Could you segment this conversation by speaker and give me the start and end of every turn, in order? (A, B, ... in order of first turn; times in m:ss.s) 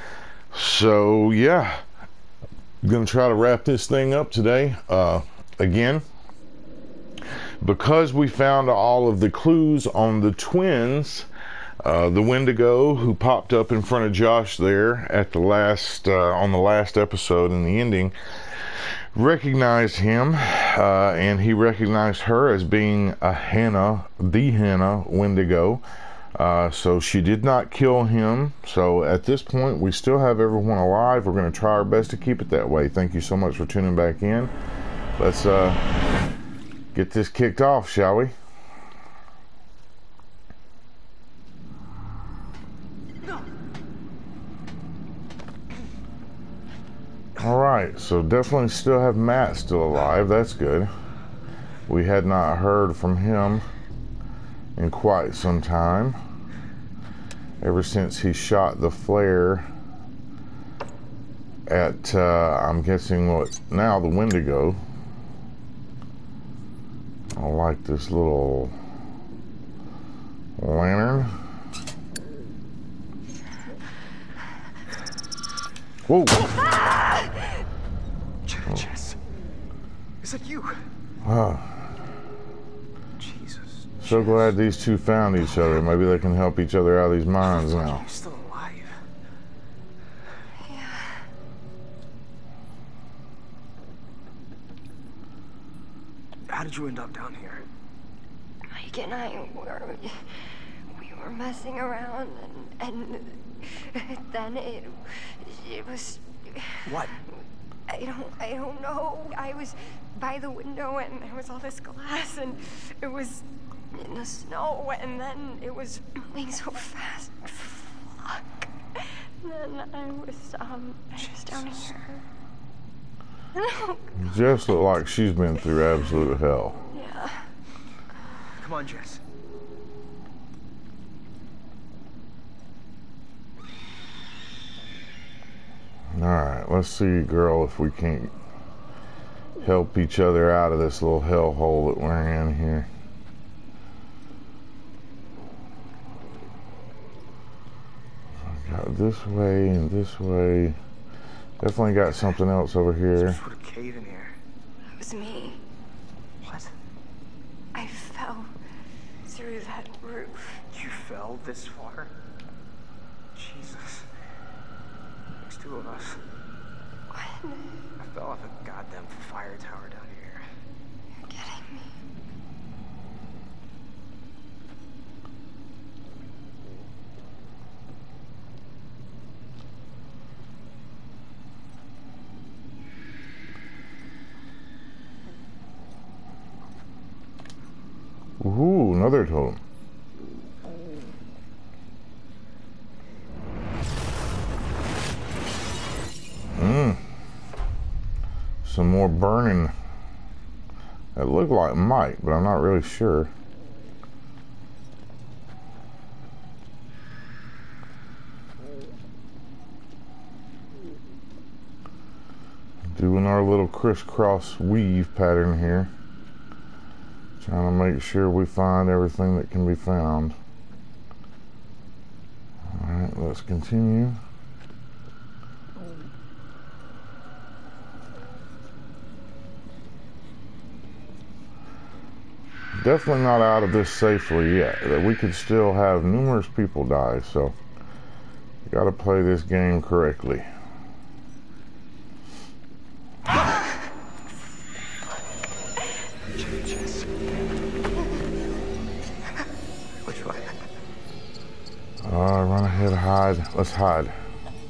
0:00.5-0:01.8 A
0:02.8-0:06.0 A
0:07.6-0:11.3 A
0:11.8-0:25.8 A
0:26.4-0:34.5 A
0:35.2-0:35.8 A
0:36.9-0:38.4 A
0:47.4-0:50.9 A
0:51.9-0:53.7 A
0:54.8-0:56.2 A
0:57.6-0:59.7 A
1:01.7-1:04.8 A
1:07.3-1:08.7 A
1:10.6-1:11.4 A
1:16.1-1:16.4 A
1:18.4-1:19.2 B
1:20.2-1:20.8 B
1:21.2-1:21.8 A
1:23.2-1:24.6 B
1:24.0-1:28.0 A
1:25.4-1:25.8 B
1:27.4-1:29.0 B
1:30.6-1:31.3 C
1:36.5-1:37.7 B
1:38.7-2:02.2 C
1:46.9-1:47.2 B
2:01.2-2:02.0 B
2:03.6-2:04.6 C
2:04.2-2:06.8 A
2:06.9-2:07.5 C
2:08.6-2:09.2 B
2:16.1-2:18.3 A
2:19.6-2:22.9 A
2:28.5-2:30.8 A
2:31.6-2:33.4 A
2:33.1-2:34.4 B
2:35.0-2:35.6 C
2:36.4-2:36.7 B
2:37.7-2:38.5 C
2:39.3-2:40.6 C
2:40.7-2:42.1 B
2:43.4-2:44.0 B
2:45.4-2:46.2 B
2:47.1-2:47.8 C
2:48.0-2:50.4 B
2:51.3-2:51.9 C
3:08.4-3:09.6 A
3:16.6-3:17.0 A
3:18.6-3:19.7 A
3:21.2-3:23.3 A
3:32.9-3:35.9 A
3:37.4-3:40.4 A
3:42.6-3:44.2 A
3:52.8-3:57.6 A
3:58.7-4:00.5 A
4:06.3-4:07.2 B
4:10.0-4:10.5 B
4:12.0-4:14.2 A